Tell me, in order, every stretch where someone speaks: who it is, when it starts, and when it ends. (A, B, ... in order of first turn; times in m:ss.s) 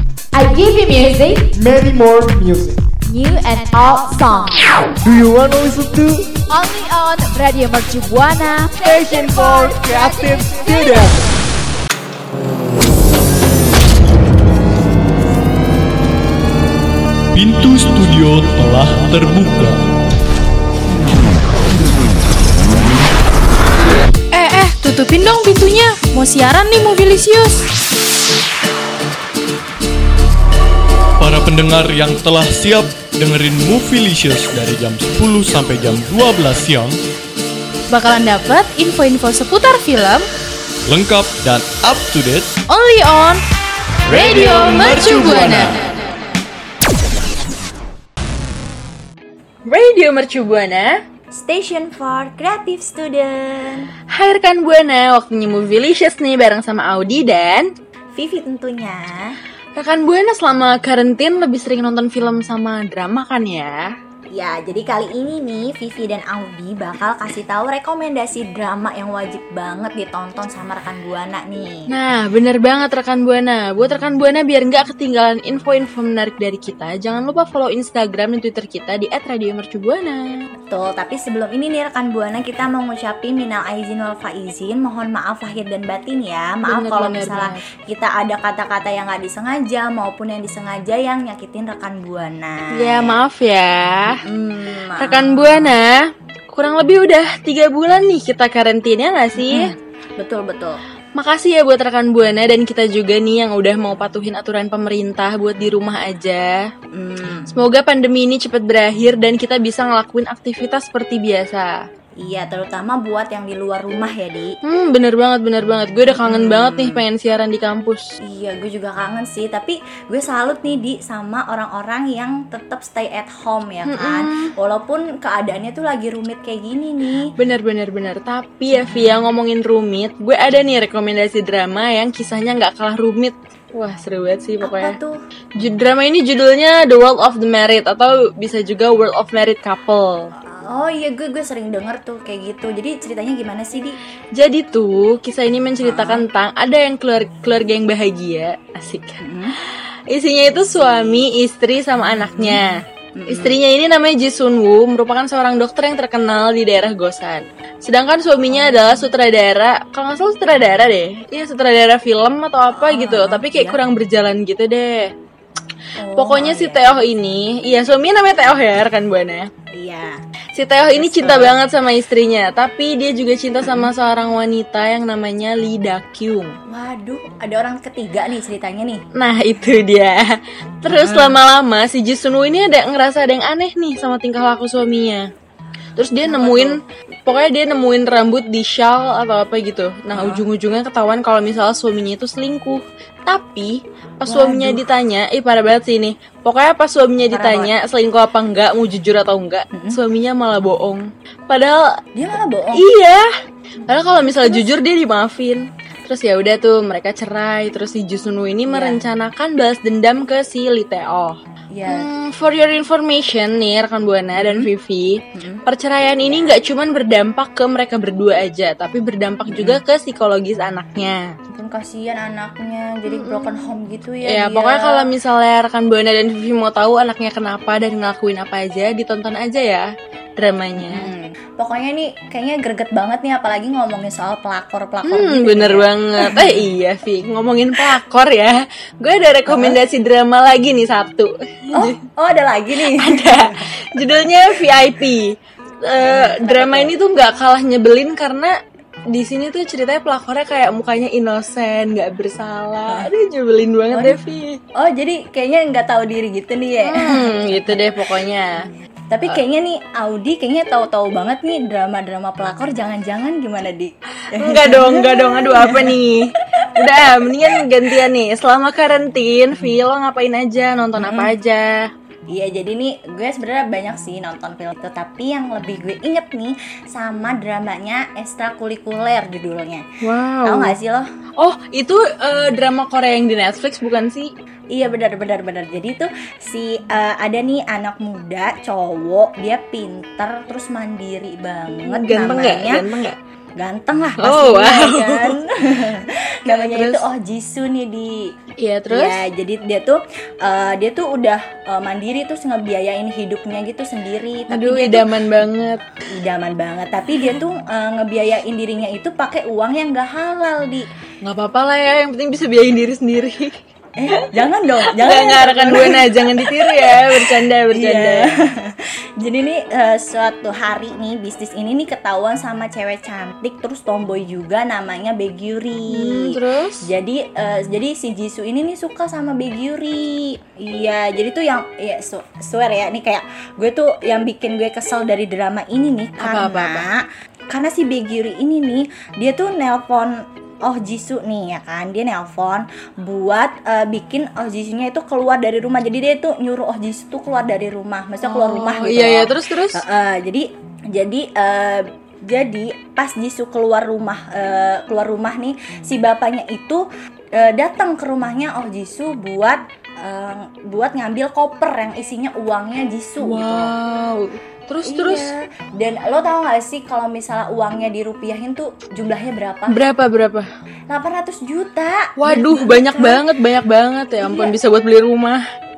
0:00.3-0:01.5 A
0:01.5-0:02.8 B
0:03.1-0:04.6 A
0:05.0-0:06.3 B
0:06.5-0:11.0 A
0:08.8-0:11.3 B
0:17.3-0:19.8 C
0:24.3-0:27.6 D
0:31.2-0:37.0 C
0:37.9-0:40.3 D
0:40.9-0:42.5 C
0:42.7-0:43.4 D
0:44.1-0:45.8 C
0:44.1-0:45.7 D
0:49.7-0:51.0 E
0:51.3-0:53.9 F
0:54.1-0:57.7 E
0:58.1-0:59.4 F
0:59.8-1:03.9 E
1:04.3-1:11.9 F
1:11.9-1:20.4 E
1:20.7-1:33.2 F
1:26.6-1:27.6 E
1:32.8-1:34.2 E
1:34.2-1:35.8 F
1:35.0-1:39.7 E
1:39.4-1:40.8 F
1:41.2-1:46.7 E
1:46.9-1:47.5 F
1:47.5-1:51.8 E
1:52.2-1:54.6 F
1:54.6-1:58.1 E
1:56.2-1:57.0 F
1:58.2-2:07.3 F
2:03.8-2:04.5 E
2:07.4-2:15.0 E
2:14.6-2:15.2 F
2:15.6-2:20.3 E
2:20.5-2:24.0 F
2:24.3-2:29.2 E
2:25.8-2:26.2 F
2:29.2-2:29.6 F
2:30.1-2:45.1 E
2:30.6-2:31.2 F
2:32.1-2:32.6 F
2:33.1-2:33.6 F
2:38.5-2:39.1 F
2:42.7-2:43.8 F
2:46.0-2:47.1 F
2:46.1-2:49.5 E
2:49.7-2:50.2 F
2:50.5-2:56.6 E
2:50.9-2:51.6 F
2:53.6-2:53.9 F
2:56.7-2:59.0 F
2:59.1-3:05.3 E
3:00.9-3:01.4 F
3:06.0-3:21.9 E
3:06.2-3:06.8 F
3:10.1-3:10.5 F
3:14.2-3:14.8 F
3:17.3-3:17.7 F
3:19.7-3:20.0 F
3:22.2-3:22.9 F
3:22.7-3:23.3 E
3:23.9-3:41.3 E
3:24.3-3:24.7 F
3:28.6-3:29.0 F
3:31.7-3:32.1 F
3:34.4-3:34.7 F
3:35.3-3:35.6 F
3:36.2-3:36.6 F
3:39.5-3:39.8 F
3:41.5-3:45.1 F
3:43.1-3:43.7 E
3:44.2-3:51.1 E
3:50.8-3:56.6 F
3:55.0-4:01.9 E
3:59.5-3:59.8 F
4:01.7-4:03.6 F
4:02.8-4:08.6 E
4:06.0-4:07.0 F
4:09.1-4:14.6 E
4:13.9-4:14.2 F
4:14.7-4:17.8 F
4:16.8-4:18.6 E
4:19.1-4:26.0 F
4:24.3-4:31.9 E
4:31.0-4:31.3 F
4:32.3-4:39.8 F
4:40.0-4:40.7 E
4:40.4-4:41.0 F
4:41.4-4:44.3 E
4:44.7-4:52.8 F
4:51.8-4:53.2 E
4:53.5-4:58.3 F
4:54.2-4:55.4 E
4:56.5-4:57.0 E
4:58.6-4:59.2 E
4:58.9-5:05.1 F
5:04.5-5:05.8 E
5:06.1-5:10.9 F
5:11.2-5:13.6 E
5:14.0-6:03.8 F
5:14.9-5:18.3 E
5:25.9-5:26.9 E
5:36.2-5:36.9 E
5:48.2-5:49.8 E
6:03.2-6:05.3 E
6:04.8-6:09.8 F
6:09.7-6:10.5 E
6:10.9-6:13.2 F
6:12.2-6:15.4 E
6:14.2-6:14.6 F